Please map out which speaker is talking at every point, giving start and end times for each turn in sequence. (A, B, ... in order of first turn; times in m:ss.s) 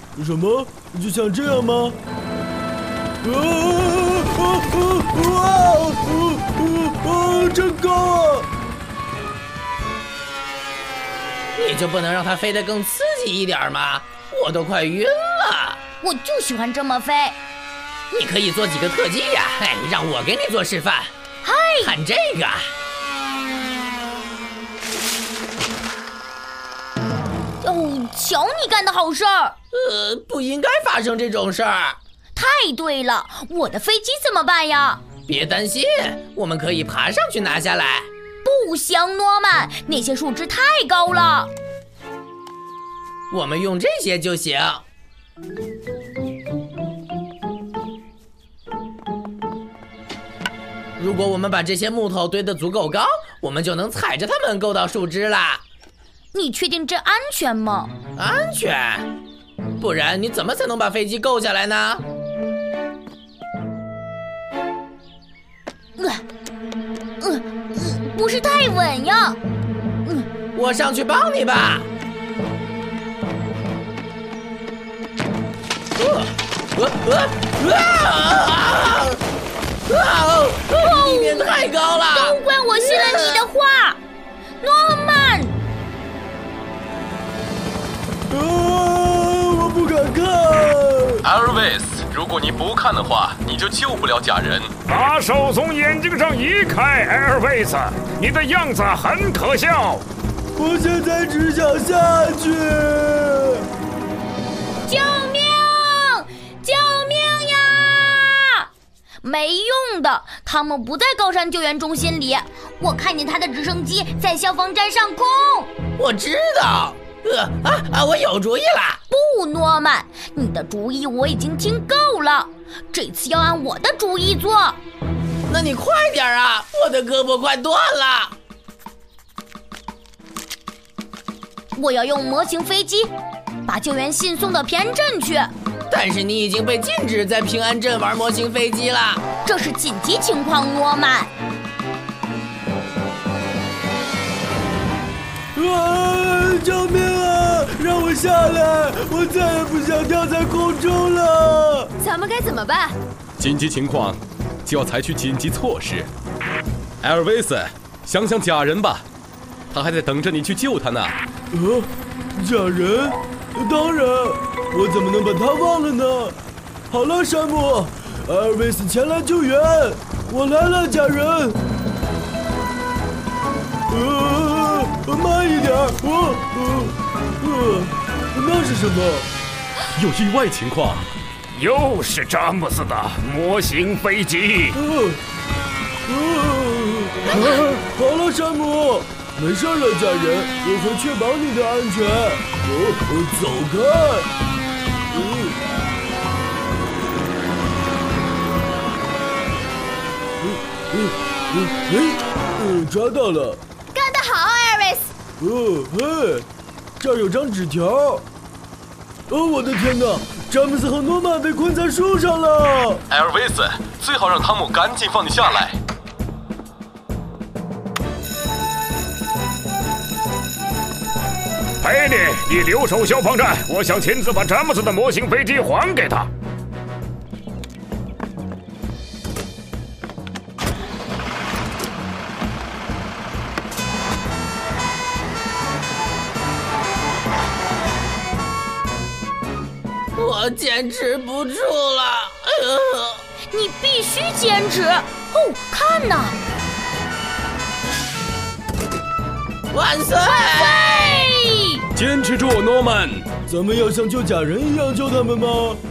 0:00.2-0:02.0 A
0:03.2-0:08.5 A
0:11.6-0:15.8 B
0:16.0-0:17.4 C
0:18.1-0:21.1 B
0:21.4-0:21.9 C
0:21.8-0:22.7 B
0:27.6-0:29.6 C
0:29.7-0:32.0 B
0:32.4-0:35.0 C
0:35.3-0:38.1 B
0:38.4-0:41.5 C
0:43.3-0:44.8 B
0:51.0-0:55.6 B
0:56.3-0:57.9 C
0:58.2-0:59.1 B
0:59.8-1:02.0 B
1:06.0-1:06.2 C
1:07.2-1:09.4 C
1:10.6-1:11.9 B
1:16.0-1:19.2 B
1:19.9-1:22.4 B
1:20.8-1:24.0 C
1:22.9-1:23.4 B
1:24.6-1:25.6 C
1:28.3-1:31.3 A
1:31.2-1:34.7 D
1:34.9-1:40.1 E
1:40.6-1:43.7 A
1:44.8-1:48.7 C
1:49.2-1:55.7 C
1:56.0-1:59.0 B
1:59.1-2:04.8 C
2:05.5-2:08.4 B
2:11.8-2:13.1 C
2:13.6-2:15.5 C
2:15.9-2:19.2 B
2:19.4-2:21.3 C
2:25.6-2:31.9 A
2:32.0-2:33.0 F
2:33.4-2:36.1 D
2:37.0-2:39.1 D
2:39.7-2:41.2 D
2:41.5-2:46.4 A
2:46.9-2:51.6 A
2:53.9-2:59.3 A
3:00.0-3:01.1 D
3:01.5-3:04.8 E
3:04.7-3:05.2 A
3:06.1-3:14.3 A
3:15.1-3:15.6 A
3:20.4-3:23.6 A
3:23.9-3:25.1 F
3:25.4-3:26.5 A
3:27.0-3:28.2 A
3:29.3-3:33.0 A
3:33.1-3:35.8 D
3:41.8-3:46.3 E
4:00.2-4:03.2 B
4:03.5-4:06.4 C
4:09.7-4:11.2 B
4:10.6-4:11.8 C
4:11.9-4:13.3 D
4:13.5-4:15.8 A